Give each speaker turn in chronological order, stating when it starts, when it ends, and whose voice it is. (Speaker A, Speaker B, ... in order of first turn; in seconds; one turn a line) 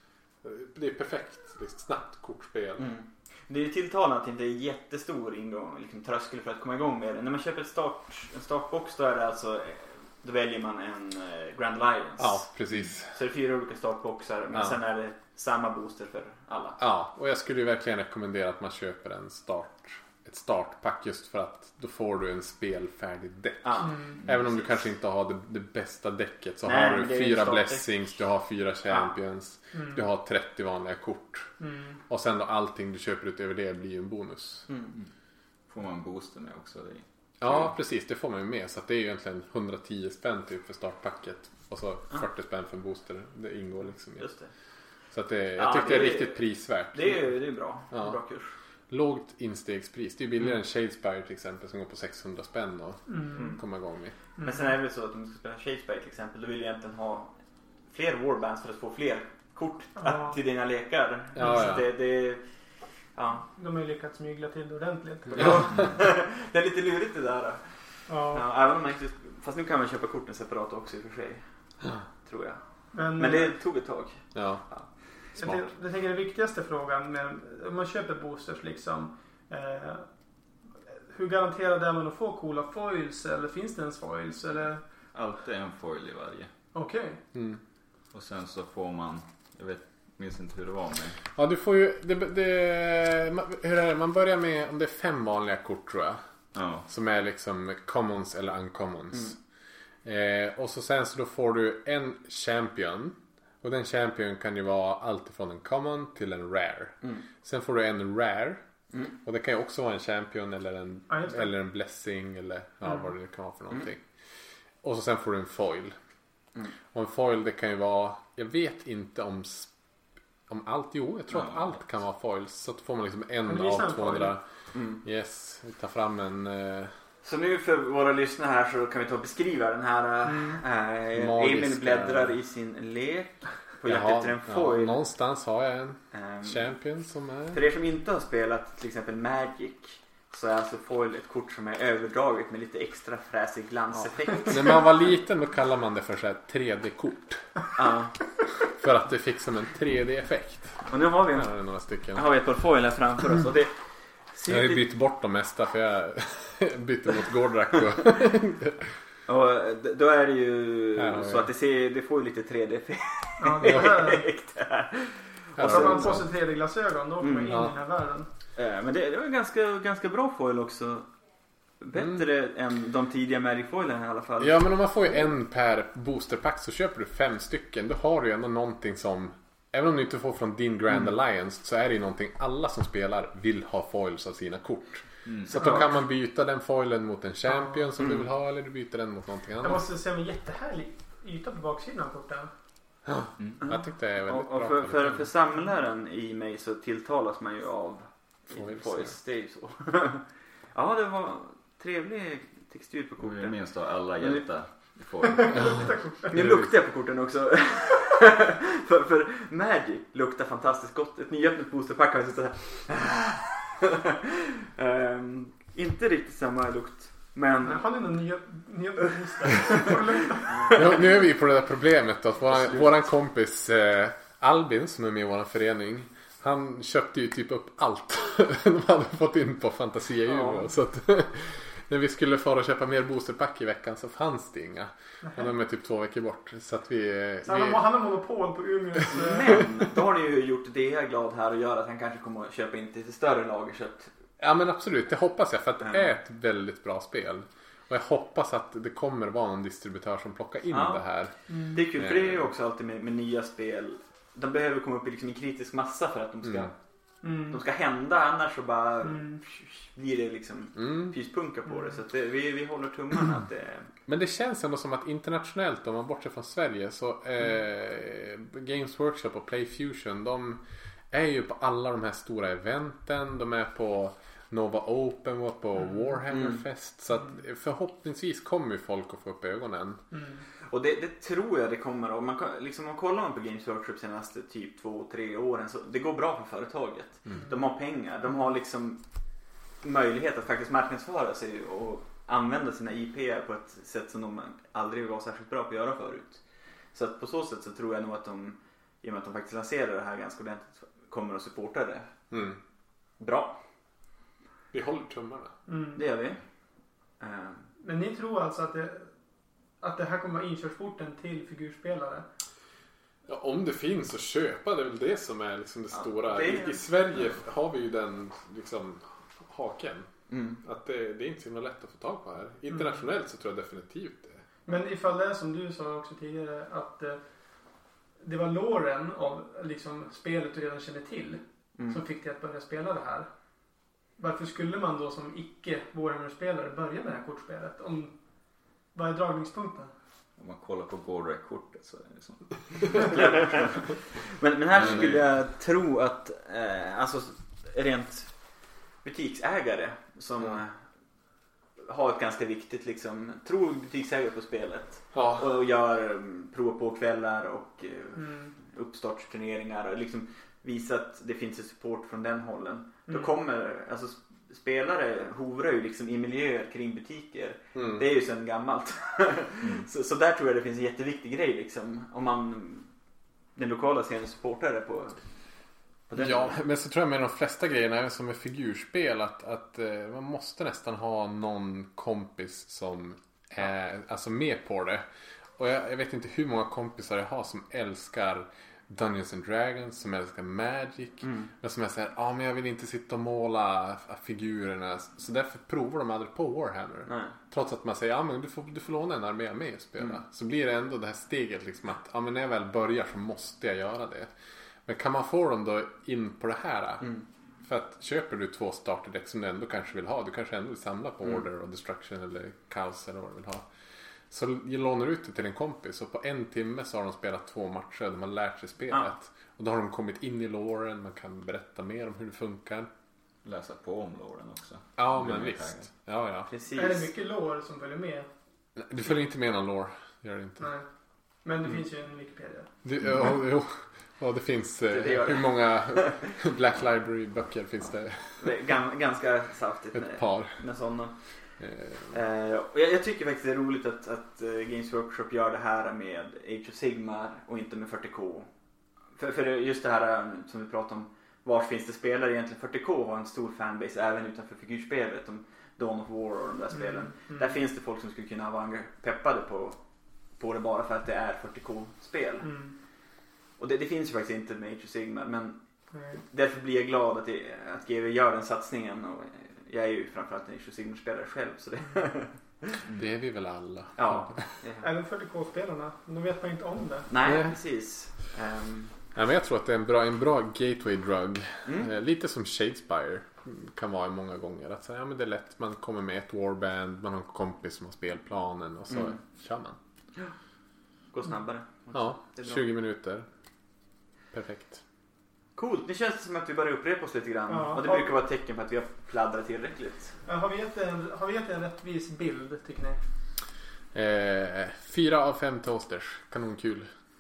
Speaker A: 0.4-2.9
Speaker B: 2.8-12.4
Speaker A: 12.2-13.1
Speaker B: 13.1-16.8
Speaker A: 16.8-31.5
Speaker B: 23.6-24.6
Speaker C: 23.8-24.2
Speaker B: 26.6-27.9
Speaker C: 29.7-30.0
Speaker C: 31.6-32.0
Speaker A: 32.1-34.7
Speaker B: 34.7-34.9
Speaker D: 35.7-37.7
Speaker A: 37.4-44.3
Speaker B: 44.2-44.5
Speaker A: 45.1-47.4
Speaker B: 45.5-48.5
Speaker A: 47.9-48.2
Speaker A: 48.9-54.1
Speaker C: 53.1-53.5
Speaker B: 53.3-53.6
Speaker C: 54.4-54.7
Speaker B: 54.4-57.3
Speaker B: 57.9-62.4
Speaker C: 60.0-60.4
Speaker A: 61.3-61.9
Speaker C: 61.4-61.7
Speaker B: 63.1-63.5
Speaker C: 63.5-65.7
Speaker A: 65.3-65.7
Speaker B: 65.3-71.4
Speaker C: 68.1-68.4
Speaker B: 72.2-74.9
Speaker C: 72.9-73.5
Speaker A: 74.3-75.6
Speaker C: 75.3-80.0
Speaker C: 80.9-84.8
Speaker D: 85.1-86.5
Speaker C: 86.7-87.2
Speaker A: 87.3-87.6
Speaker D: 88.1-91.2
Speaker A: 91.3-96.2
Speaker D: 96.5-96.9
Speaker A: 96.9-99.3
Speaker A: 100.0-108.6
Speaker A: 109.2-114.0
Speaker C: 111.1-111.5
Speaker A: 114.8-115.9
Speaker A: 116.9-119.7
Speaker A: 120.5-124.4
Speaker D: 121.3-121.6
Speaker C: 123.5-124.3
Speaker B: 124.7-125.0
Speaker A: 125.0-126.9
Speaker B: 127.2-135.0
Speaker C: 130.3-130.6
Speaker A: 131.1-132.3
Speaker A: 133.8-137.6
Speaker B: 136.1-136.7
Speaker B: 137.5-144.8
Speaker A: 144.0-147.5
Speaker B: 147.7-148.1
Speaker A: 148.6-152.2
Speaker B: 150.9-151.5
Speaker B: 152.1-154.8
Speaker A: 154.5-158.9
Speaker B: 159.3-166.2
Speaker A: 160.9-161.5
Speaker C: 163.4-164.3
Speaker A: 165.6-166.3
Speaker C: 165.6-168.3
Speaker B: 167.2-167.6
Speaker A: 167.5-167.8
Speaker B: 168.6-171.1
Speaker B: 171.8-174.6
Speaker A: 174.4-189.8
Speaker D: 185.2-185.5
Speaker C: 187.5-187.8
Speaker C: 189.6-192.5
Speaker A: 193.1-195.3
Speaker B: 193.6-203.6
Speaker A: 198.5-199.1
Speaker D: 203.2-205.9
Speaker B: 204.2-204.4
Speaker C: 205.4-206.3
Speaker B: 206.3-214.0
Speaker A: 206.3-206.7
Speaker B: 214.7-217.9
Speaker C: 217.6-220.8
Speaker B: 220.4-221.0
Speaker A: 220.7-237.8
Speaker B: 230.3-230.7
Speaker C: 237.4-239.7
Speaker B: 239.1-244.1
Speaker A: 244.4-252.5
Speaker B: 245.8-246.1
Speaker B: 250.7-251.0
Speaker C: 251.5-251.8
Speaker B: 251.7-256.7
Speaker A: 256.4-256.7
Speaker C: 257.2-257.6
Speaker B: 257.5-263.9
Speaker C: 259.0-259.4
Speaker A: 260.7-261.1
Speaker C: 261.7-262.0
Speaker A: 264.1-280.0
Speaker B: 276.3-276.6
Speaker C: 280.1-280.4
Speaker B: 280.7-289.0
Speaker B: 289.8-302.1
Speaker A: 302.3-302.6
Speaker B: 303.2-303.6
Speaker A: 304.7-305.5
Speaker C: 305.7-306.0
Speaker B: 305.9-306.4
Speaker B: 307.2-307.7
Speaker C: 307.8-309.1
Speaker C: 309.8-312.2
Speaker A: 313.3-320.1
Speaker B: 315.9-316.8
Speaker B: 320.3-320.6
Speaker A: 320.6-324.4
Speaker C: 324.6-327.2
Speaker C: 328.2-333.3
Speaker C: 334.2-338.1
Speaker C: 338.9-339.9
Speaker D: 340.4-344.0
Speaker B: 343.0-348.4
Speaker D: 344.7-345.2
Speaker B: 349.0-350.8
Speaker B: 351.8-372.9
Speaker A: 355.1-355.4
Speaker C: 358.2-358.5
Speaker C: 363.1-363.3
Speaker A: 367.7-368.0
Speaker B: 373.6-375.2
Speaker B: 376.1-376.6
Speaker A: 376.2-385.0
Speaker A: 385.6-404.3
Speaker B: 391.2-391.5
Speaker B: 397.1-397.3
Speaker A: 404.9-413.7
Speaker A: 414.3-422.9
Speaker D: 423.4-425.9
Speaker A: 425.0-426.5
Speaker B: 426.5-427.1
Speaker C: 426.7-428.3
Speaker A: 428.8-430.7
Speaker C: 430.6-430.9
Speaker C: 431.4-432.7
Speaker A: 432.8-438.6
Speaker B: 434.9-436.2
Speaker B: 438.4-441.5
Speaker A: 439.9-440.6
Speaker A: 441.6-442.2
Speaker B: 442.1-448.5
Speaker B: 449.1-459.8
Speaker C: 456.7-457.5
Speaker B: 460.4-462.5
Speaker C: 462.4-462.7
Speaker B: 463.6-472.8
Speaker C: 465.9-466.2
Speaker A: 472.9-474.6
Speaker B: 473.9-474.9
Speaker C: 474.8-477.1
Speaker B: 477.1-478.9
Speaker A: 477.2-477.6
Speaker A: 479.1-489.8
Speaker B: 481.6-481.9
Speaker B: 488.9-489.2
Speaker B: 491.1-492.6
Speaker A: 491.9-493.2
Speaker A: 494.3-494.8
Speaker B: 495.6-500.2
Speaker C: 497.5-498.1
Speaker C: 500.2-503.0
Speaker A: 503.9-506.9